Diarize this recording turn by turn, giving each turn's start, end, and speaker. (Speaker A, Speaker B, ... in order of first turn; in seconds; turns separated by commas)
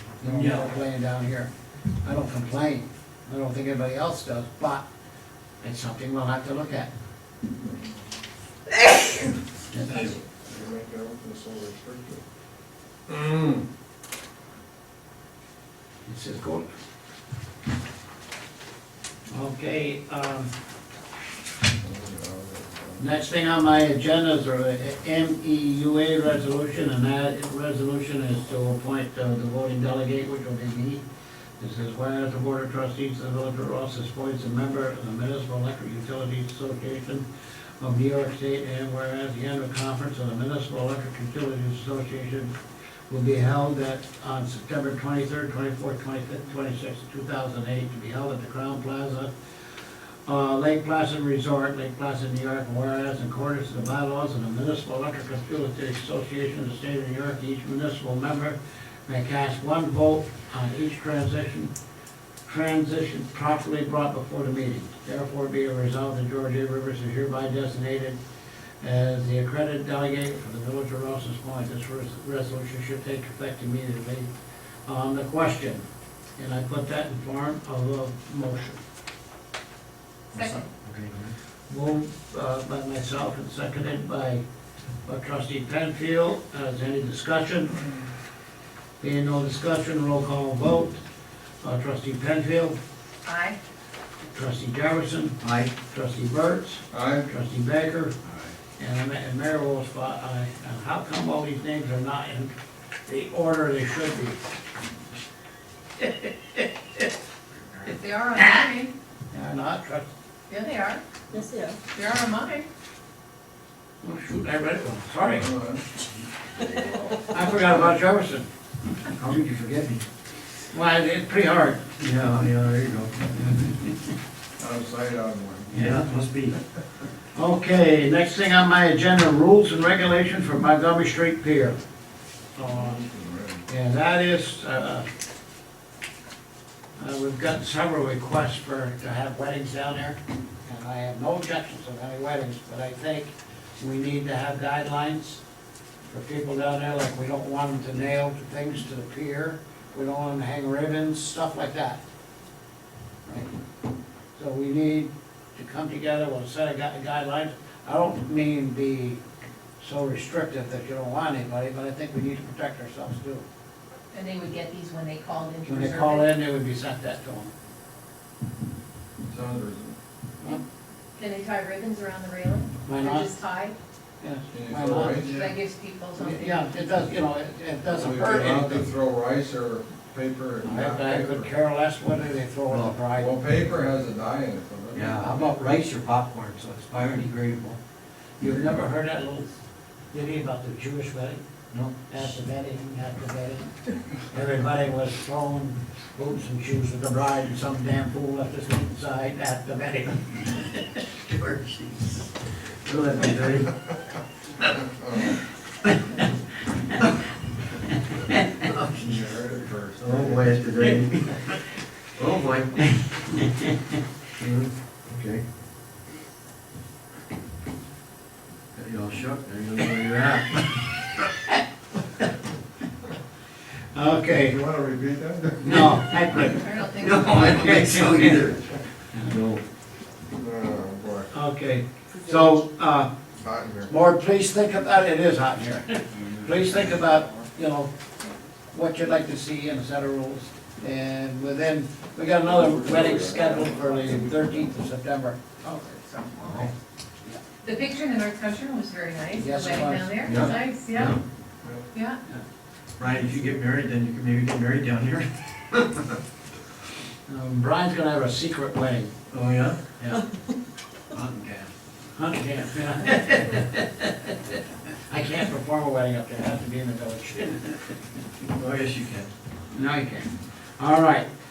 Speaker A: 0.2-1.5, Speaker B: 0.2-0.7, Speaker A: 2.0-4.8, Speaker A: 5.6-6.9, Speaker B: 9.7-10.2, Speaker C: 10.4-12.2, Speaker C: 13.1-13.6, Speaker A: 16.1-16.7, Speaker A: 19.3-20.5, Speaker C: 21.8-23.0, Speaker A: 23.0-31.0, Speaker A: 31.6-37.2, Speaker A: 37.8-42.5, Speaker A: 43.1-49.3, Speaker A: 50.2-61.7, Speaker A: 62.4-68.2, Speaker A: 68.8-74.3, Speaker A: 74.8-75.8, Speaker A: 76.4-78.8, Speaker D: 80.3-80.7, Speaker B: 80.3-81.3, Speaker A: 81.7-84.4, Speaker A: 85.0-87.8, Speaker A: 89.0-91.0, Speaker A: 91.6-92.8, Speaker D: 93.2-93.6, Speaker A: 94.3-98.1, Speaker B: 95.4-95.7, Speaker C: 96.9-97.3, Speaker A: 98.8-102.5, Speaker A: 103.1-104.4, Speaker D: 107.8-108.9, Speaker A: 109.3-110.1, Speaker D: 110.5-111.0, Speaker D: 111.9-112.7, Speaker A: 114.0-115.5, Speaker C: 115.2-115.8, Speaker C: 116.8-117.8, Speaker A: 117.3-118.5, Speaker B: 119.2-120.0, Speaker A: 120.7-121.8, Speaker B: 122.0-123.4, Speaker C: 124.6-125.8, Speaker B: 125.7-126.6, Speaker A: 127.3-131.8, Speaker A: 132.6-133.0, Speaker C: 132.7-133.6, Speaker A: 133.7-135.1, Speaker A: 137.0-145.4, Speaker A: 146.1-152.0, Speaker A: 154.3-159.2, Speaker A: 159.8-163.4, Speaker D: 164.1-166.3, Speaker A: 165.6-167.5, Speaker C: 169.3-169.9, Speaker D: 171.2-173.8, Speaker A: 172.8-173.3, Speaker A: 174.2-175.4, Speaker C: 174.5-175.5, Speaker D: 175.2-176.7, Speaker A: 176.2-178.8, Speaker C: 177.8-181.5, Speaker A: 180.6-183.3, Speaker B: 182.7-182.9, Speaker C: 183.2-185.3, Speaker B: 184.9-187.8, Speaker A: 185.2-185.7, Speaker A: 188.4-189.6, Speaker A: 190.1-191.4, Speaker A: 192.1-200.9, Speaker B: 201.1-203.7, Speaker C: 205.0-205.4, Speaker B: 208.6-209.2, Speaker C: 209.0-210.5, Speaker B: 210.0-211.5, Speaker B: 212.2-212.9, Speaker B: 214.4-215.4, Speaker B: 218.7-220.7, Speaker A: 223.9-224.6, Speaker C: 224.4-226.5, Speaker A: 225.6-226.7, Speaker D: 226.4-227.7, Speaker B: 227.0-229.6, Speaker A: 227.4-228.4, Speaker C: 230.3-231.3, Speaker A: 231.3-233.1, Speaker C: 233.4-233.9, Speaker A: 233.9-237.9, Speaker C: 236.4-237.3, Speaker A: 238.7-245.4, Speaker C: 242.4-244.7, Speaker D: 245.6-246.4, Speaker B: 246.4-246.7, Speaker D: 247.6-251.2, Speaker A: 249.4-250.6, Speaker B: 250.2-251.2, Speaker D: 251.9-252.2, Speaker B: 253.0-256.0, Speaker A: 257.3-259.1, Speaker B: 259.3-260.2, Speaker B: 261.1-261.7, Speaker A: 262.1-267.9, Speaker B: 268.5-269.3, Speaker A: 269.7-271.3